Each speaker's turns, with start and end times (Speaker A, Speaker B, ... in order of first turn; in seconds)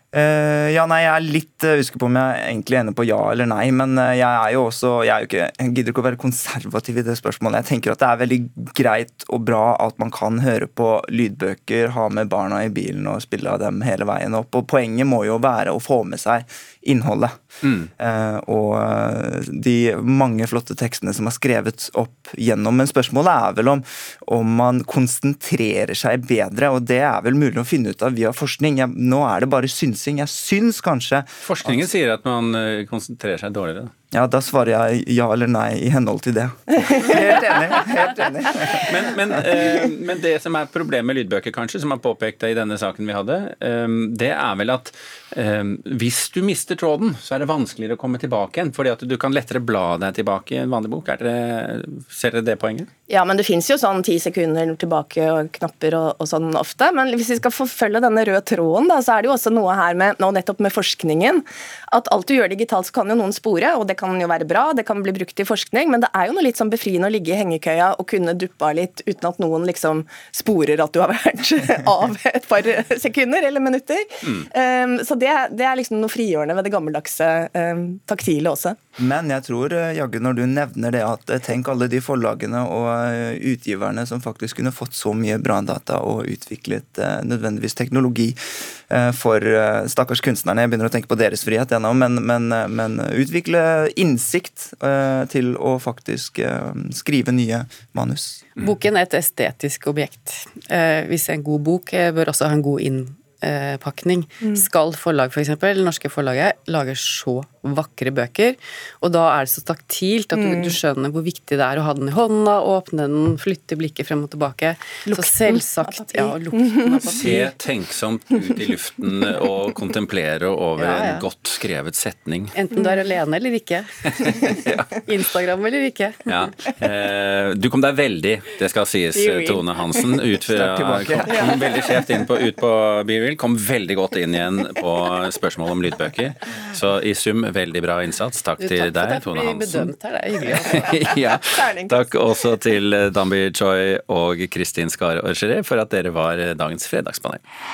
Speaker A: 0.1-31.9, 34.1-39.0, 79.0-88.4, 88.9-98.4, 130.5-131.6
Speaker B: 31.4-33.9, 38.7-52.9, 117.2-122.5, 124.1-125.1, 126.3-147.4
Speaker C: 53.1-78.8, 110.3-110.8, 115.1-117.4, 129.2-129.6, 141.3-142.1
Speaker D: 98.6-117.5, 120.8-121.2, 122.5-123.9, 125.1-126.2, 138.7-140.9